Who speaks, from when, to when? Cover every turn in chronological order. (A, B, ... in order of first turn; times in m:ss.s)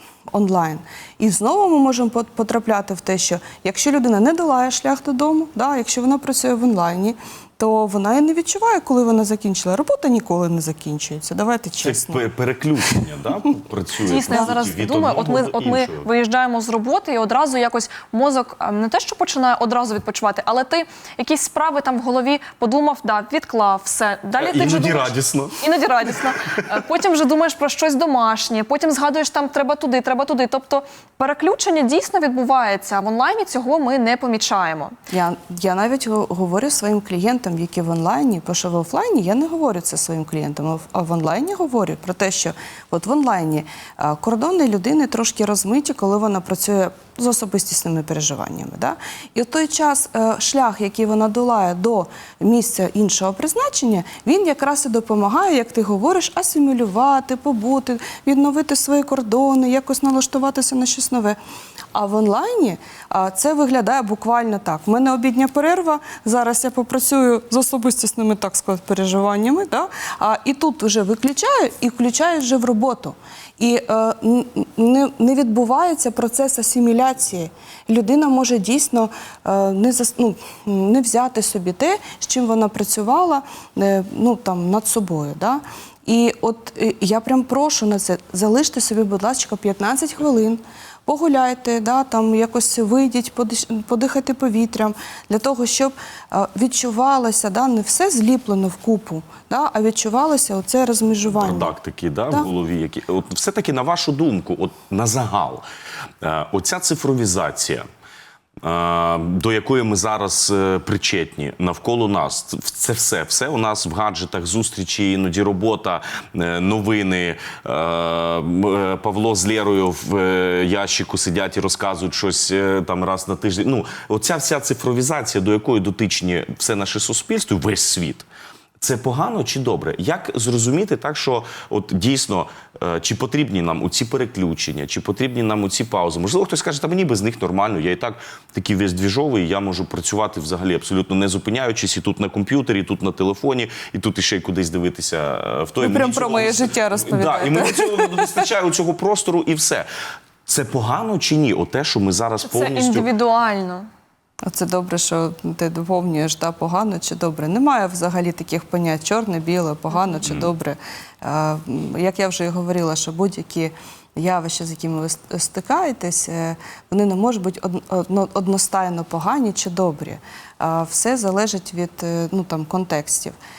0:00.3-0:12.2 A
0:11.8-0:16.1 B
0:14.0-0:35.0 C
0:24.4-0:26.8 B
0:35.1-1:01.4 A
1:01.9-1:41.7 A
1:41.3-1:45.6 B
1:46.2-1:47.8 B
1:48.6-2:08.3 B
2:08.8-2:29.9 B
2:25.8-2:28.5 A
2:30.5-2:33.1 B
2:32.4-2:33.9 C
2:34.4-2:53.4 A